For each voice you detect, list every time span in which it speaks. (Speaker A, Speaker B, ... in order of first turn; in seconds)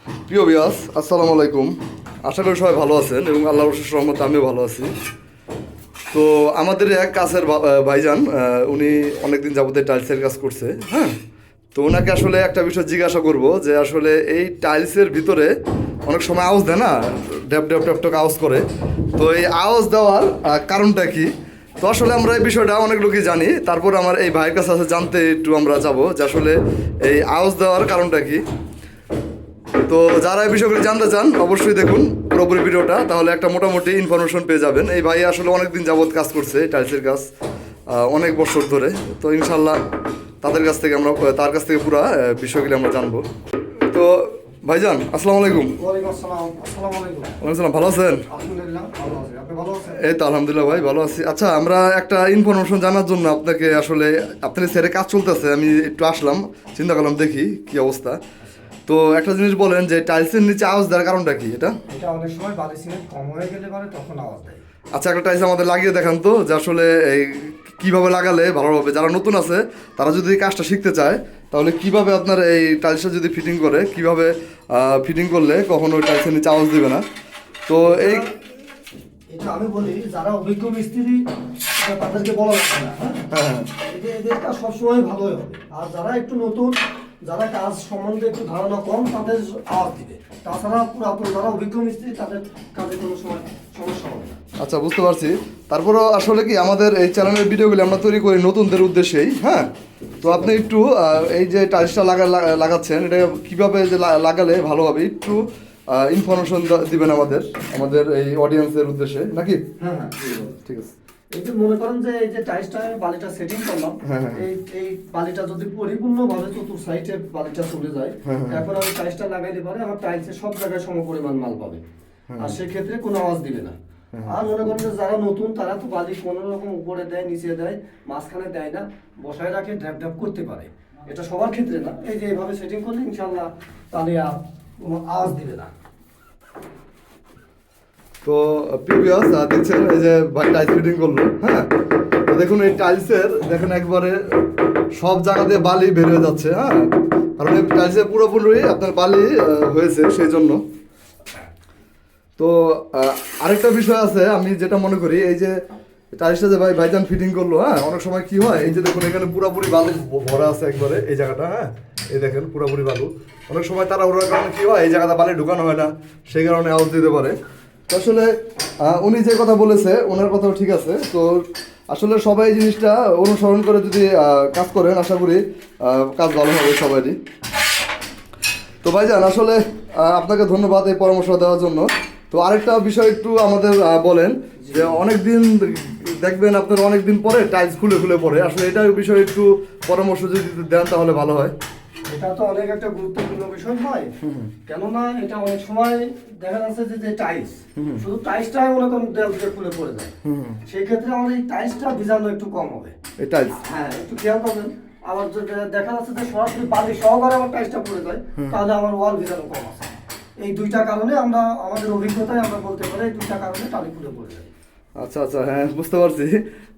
Speaker A: 0.3-1.7, 2.2-4.9, 6.1-11.1, 11.7-15.5, 16.1-28.4, 29.9-37.3, 37.9-39.8, 40.4-43.2, 43.9-45.7, 47.4-48.2, 50.0-58.2, 58.9-61.8, 64.9-77.0, 77.7-78.2, 83.3-83.7, 94.6-99.7, 100.2-105.4, 105.9-109.6, 110.7-110.9, 114.0-114.4, 118.2-118.6, 122.3-122.5, 138.2-141.7, 142.3-144.2, 144.9-150.6, 152.4-155.5, 156.1-167.3, 167.9-177.2, 178.8-191.5, 197.8-198.0, 200.2-200.6, 203.2-203.6, 215.0-216.4
Speaker B: 45.8-47.4, 48.3-50.0, 61.9-64.6, 77.9-78.3, 79.3-81.2, 81.8-83.3, 83.8-94.4, 109.8-110.6, 111.3-121.8, 122.4-135.7, 184.6-185.0, 192.1-194.1, 194.7-200.1, 200.7-202.9, 203.6-209.9, 210.4-214.5